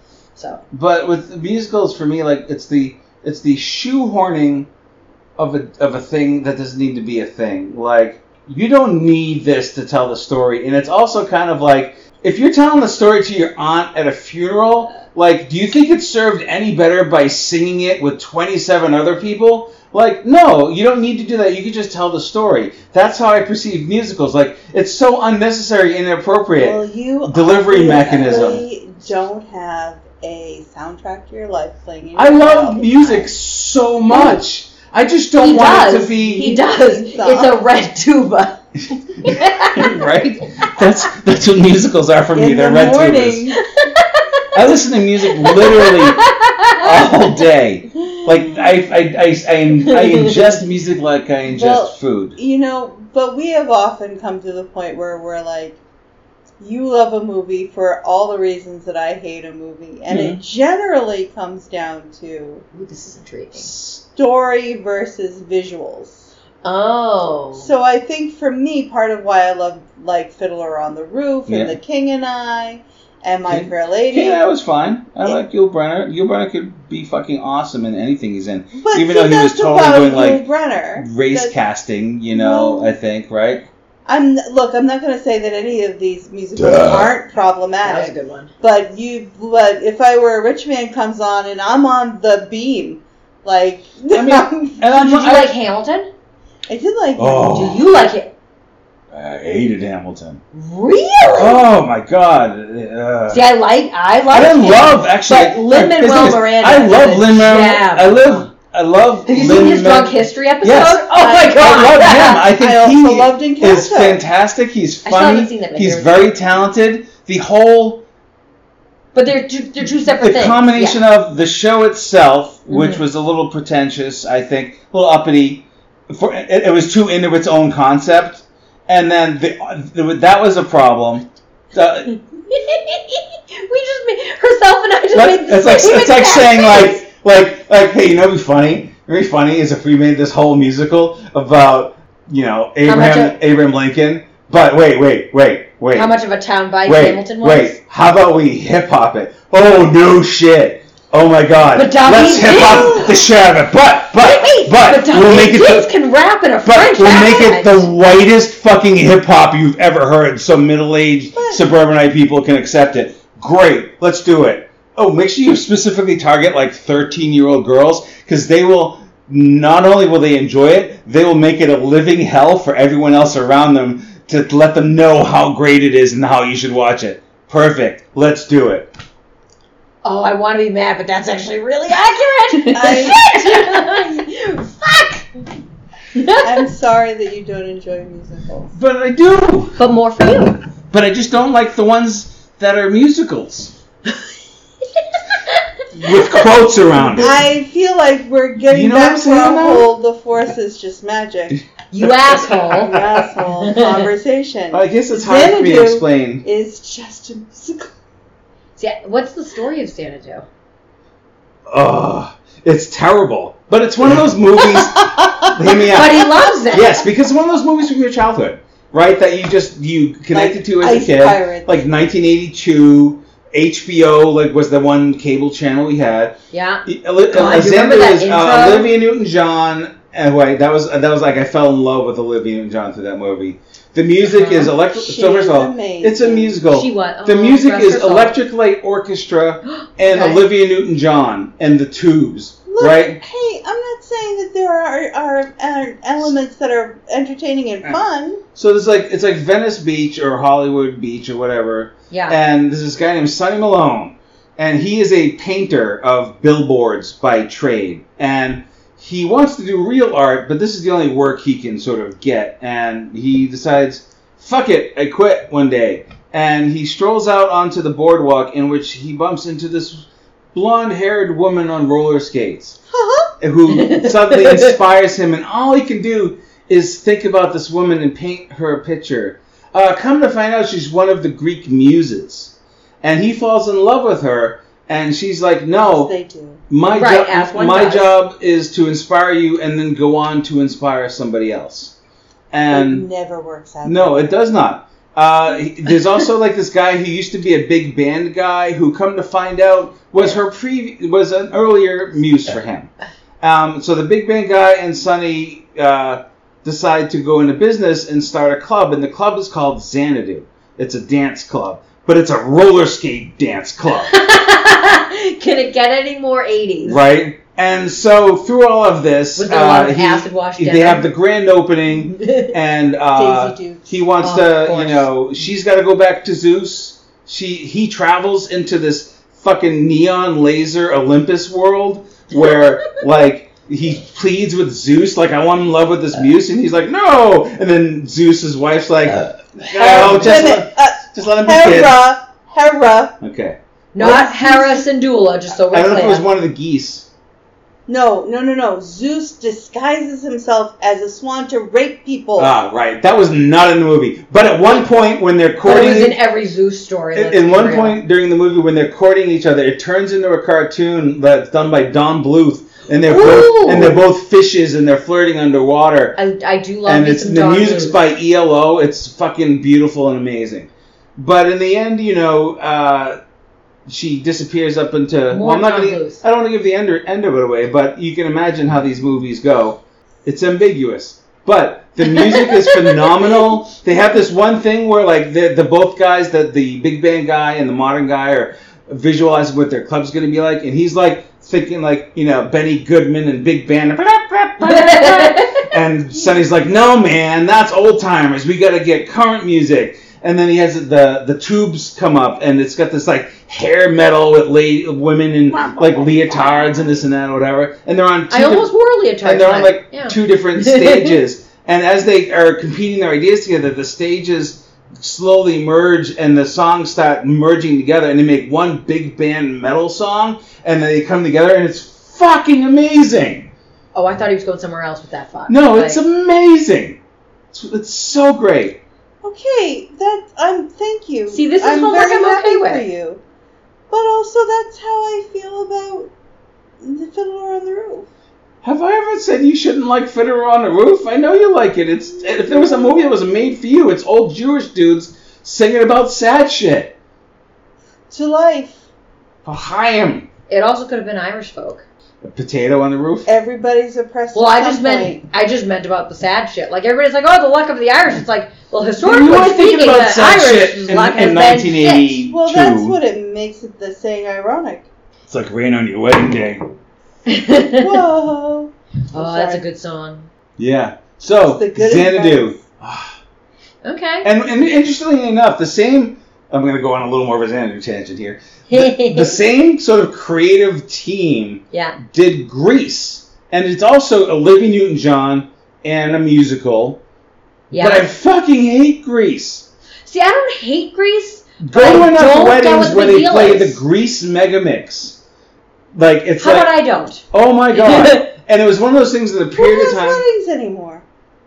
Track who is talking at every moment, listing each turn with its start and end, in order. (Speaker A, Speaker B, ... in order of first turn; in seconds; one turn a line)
Speaker A: 0.3-0.6
Speaker B: 0.7-4.7
Speaker B: 5.4-28.6
Speaker C: 26.6-33.3
Speaker B: 32.1-36.5
Speaker A: 35.4-38.6
Speaker C: 35.5-37.6
Speaker A: 39.2-39.9
Speaker B: 39.2-43.5
Speaker C: 42.3-43.6
Speaker A: 43.7-44.5
Speaker B: 44.5-46.2
Speaker A: 45.4-47.3
Speaker B: 46.8-52.4
Speaker C: 48.1-48.6
Speaker A: 49.9-50.5
Speaker C: 51.5-55.8
Speaker C: 56.6-62.6
Speaker B: 60.1-60.4
Speaker A: 62.7-63.7
Speaker B: 63.6-64.0
Speaker C: 64.0-66.3
Speaker A: 66.6-67.7
Speaker C: 67.6-74.4
Speaker B: 71.5-71.8
Speaker B: 73.5-80.4
Speaker C: 78.7-81.5
Speaker B: 81.0-83.7
Speaker C: 82.3-83.0
Speaker C: 84.0-94.9
Speaker B: 86.6-87.1
Speaker A: 87.8-88.5
Speaker B: 94.1-95.5
Speaker A: 94.9-96.1
Speaker C: 96.7-97.5
Speaker B: 97.2-97.8
Speaker A: 97.5-98.3
Speaker B: 99.1-100.4
Speaker A: 100.5-101.7
Speaker B: 101.3-103.5
Speaker A: 103.3-108.5
Speaker B: 104.3-118.0
Speaker A: 109.3-112.4
Speaker C: 112.4-114.2
Speaker A: 115.0-116.3
Speaker A: 119.1-121.0
Speaker B: 120.2-132.1
Speaker A: 122.7-123.0
Speaker A: 132.5-137.0
Speaker B: 135.1-146.1
Speaker A: 142.8-143.4
Speaker A: 145.9-147.8
Speaker B: 146.8-155.9
Speaker A: 151.7-153.2
Speaker C: 152.4-153.2
Speaker A: 154.2-157.9
Speaker B: 156.6-178.9
Speaker C: 161.3-161.6
Speaker A: 180.0-185.3
Speaker C: 182.7-184.0
Speaker A: 186.1-186.6
Speaker C: 186.4-188.7
Speaker B: 188.7-189.8
Speaker A: 189.8-190.6
Speaker B: 190.9-193.7
Speaker A: 195.0-195.7
Speaker B: 195.9-197.4
Speaker C: 197.1-201.6
Speaker B: 198.7-199.9
Speaker B: 201.5-203.2
Speaker A: 201.9-203.0
Speaker C: 202.8-207.9
Speaker A: 203.6-204.0
Speaker B: 204.7-206.4
Speaker A: 208.8-210.4
Speaker B: 211.7-243.2
Speaker C: 215.1-215.5
Speaker A: 215.9-217.0
Speaker C: 220.3-221.8
Speaker A: 226.5-228.9
Speaker A: 234.3-234.7
Speaker C: 234.5-236.6
Speaker A: 236.7-238.4
Speaker A: 239.7-240.4
Speaker C: 242.7-248.4
Speaker B: 248.5-272.8
Speaker A: 252.1-252.4
Speaker C: 272.9-273.3
Speaker B: 273.4-286.1
Speaker A: 273.7-274.7
Speaker C: 285.8-286.6
Speaker B: 286.7-291.9
Speaker A: 286.9-288.1
Speaker B: 292.5-293.1
Speaker C: 292.7-294.3
Speaker B: 293.8-314.1
Speaker A: 314.1-317.0
Speaker B: 316.8-341.9
Speaker A: 319.4-321.1
Speaker A: 322.1-322.5
Speaker C: 323.1-324.0
Speaker A: 324.2-325.1
Speaker A: 339.7-340.4
Speaker C: 339.8-343.1
Speaker B: 343.2-343.6
Speaker A: 343.9-346.2
Speaker C: 344.0-344.8
Speaker B: 345.5-347.1
Speaker C: 347.9-352.5
Speaker B: 352.4-356.2
Speaker A: 355.6-358.0
Speaker B: 357.1-366.2
Speaker A: 363.0-364.0
Speaker A: 366.1-368.0
Speaker B: 366.9-373.2
Speaker B: 373.9-408.7
Speaker A: 375.3-376.2
Speaker A: 382.1-383.1
Speaker A: 394.6-395.7
Speaker A: 408.3-411.2
Speaker B: 409.2-423.5
Speaker A: 423.9-426.0
Speaker B: 425.5-427.0
Speaker B: 427.5-428.8
Speaker C: 429.2-433.2
Speaker A: 431.3-432.8
Speaker C: 433.9-436.1
Speaker C: 436.8-438.1
Speaker B: 438.6-446.9
Speaker C: 442.2-443.1
Speaker C: 448.1-448.8
Speaker B: 449.4-450.3
Speaker A: 450.5-451.8
Speaker B: 452.2-453.3
Speaker C: 453.2-455.2
Speaker A: 454.3-462.1
Speaker B: 459.0-463.0
Speaker C: 462.0-464.9
Speaker B: 465.3-466.7
Speaker A: 467.3-468.0
Speaker C: 467.7-469.6
Speaker A: 469.1-470.3
Speaker B: 470.6-473.1
Speaker C: 471.4-472.6
Speaker A: 473.8-474.3
Speaker B: 474.2-487.0
Speaker A: 478.7-479.4
Speaker A: 481.7-482.0
Speaker A: 487.7-488.1
Speaker B: 487.8-489.7
Speaker A: 490.0-493.8
Speaker B: 491.6-495.2
Speaker B: 495.9-496.7
Speaker A: 496.4-498.3
Speaker B: 497.3-500.2
Speaker C: 499.6-501.0